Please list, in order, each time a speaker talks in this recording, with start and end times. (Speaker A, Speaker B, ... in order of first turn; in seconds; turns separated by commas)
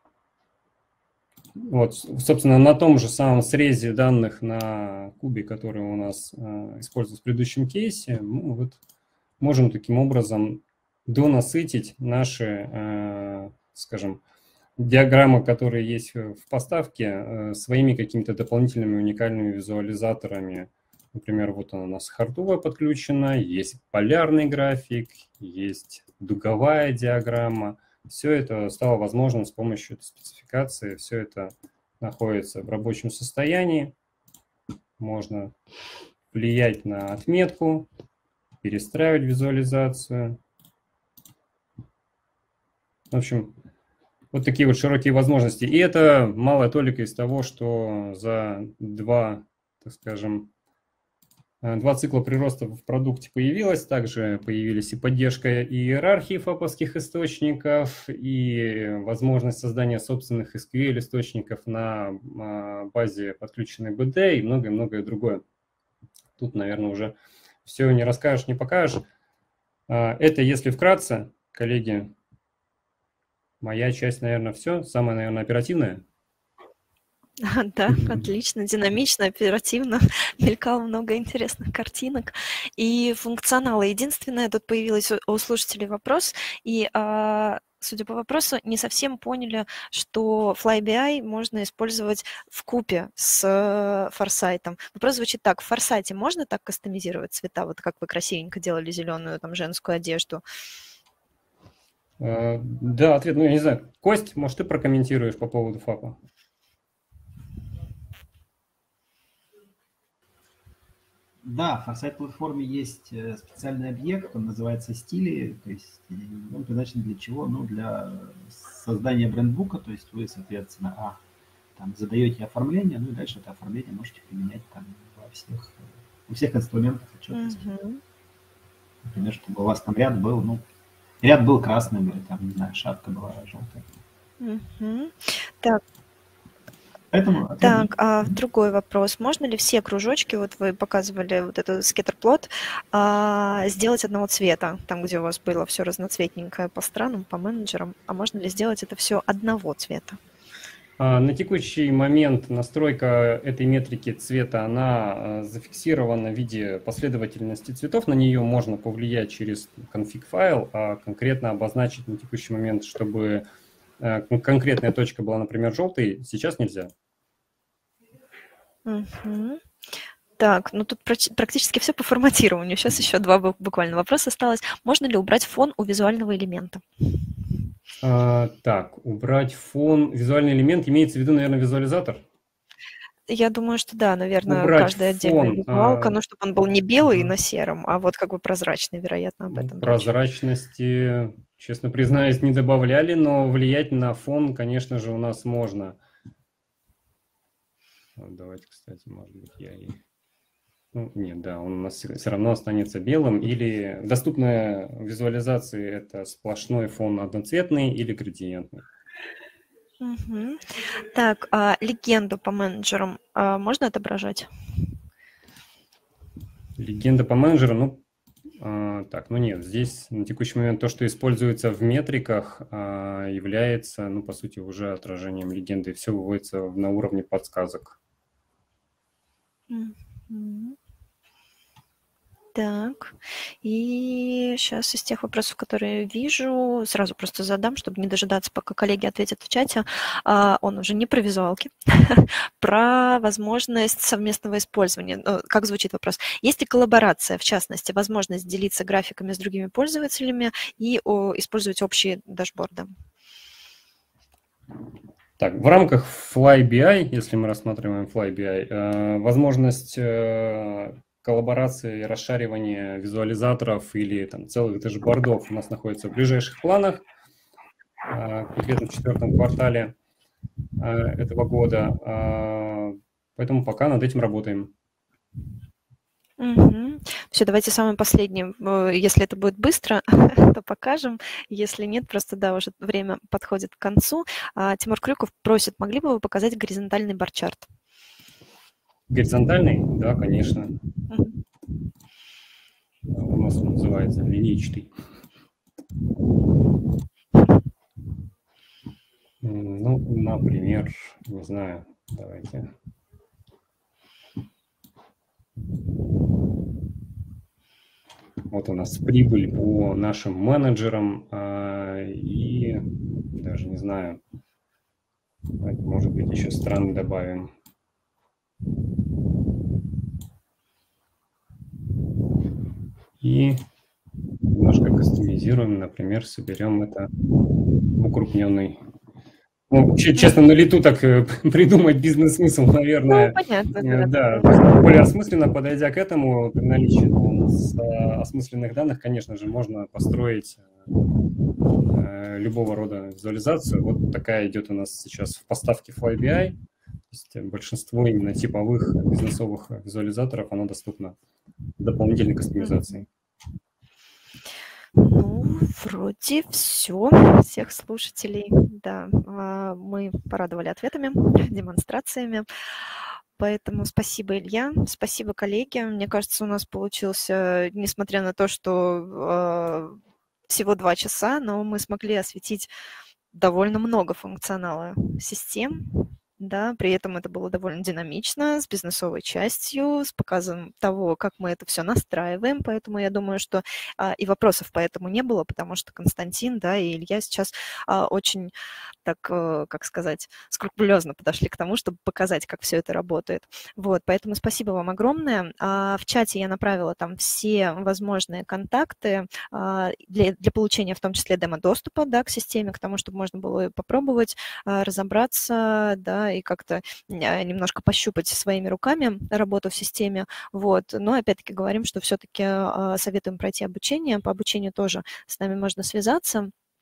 Speaker A: 1.6-8.8, Speaker A: 9.4-14.2, Speaker A: 14.8-33.9, Speaker A: 35.0-35.5, Speaker A: 36.3-37.9, Speaker A: 38.6-40.4, Speaker A: 43.1-43.5, Speaker A: 44.3-50.5, Speaker A: 51.6-65.4, Speaker A: 66.4-69.0, Speaker A: 69.9-72.1, Speaker A: 73.6-76.0, Speaker B: 77.4-100.4, Speaker A: 102.2-106.2, Speaker C: 111.4-121.2, Speaker C: 121.8-127.6, Speaker B: 127.3-128.0, Speaker C: 129.0-130.6, Speaker C: 131.2-133.8, Speaker B: 134.4-135.8, Speaker C: 137.1-138.4, Speaker B: 137.6-150.2, Speaker A: 151.0-163.5, Speaker A: 164.0-166.9, Speaker B: 168.9-169.6, Speaker B: 170.4-176.8, Speaker A: 178.0-182.2, Speaker B: 183.3-190.1, Speaker A: 184.5-186.2, Speaker A: 189.5-196.0, Speaker A: 198.2-200.0, Speaker A: 200.9-208.9, Speaker B: 210.0-214.5, Speaker A: 216.8-218.0, Speaker A: 218.6-228.0, Speaker B: 229.7-230.8, Speaker B: 232.6-252.9, Speaker A: 255.4-267.0, Speaker A: 268.1-269.9, Speaker A: 270.8-274.7, Speaker B: 276.4-287.7, Speaker A: 289.1-290.7, Speaker B: 291.1-291.4, Speaker A: 293.1-294.9, Speaker A: 299.4-302.7, Speaker A: 308.5-314.2, Speaker A: 315.6-317.5, Speaker A: 323.2-323.6, Speaker A: 324.5-327.1, Speaker A: 327.9-328.8, Speaker A: 329.7-340.7, Speaker B: 333.1-334.6, Speaker A: 341.9-346.6, Speaker A: 347.1-351.2, Speaker A: 351.8-353.1, Speaker B: 355.0-362.5, Speaker B: 363.4-370.0, Speaker B: 370.5-372.7, Speaker B: 373.3-388.5, Speaker B: 389.0-416.5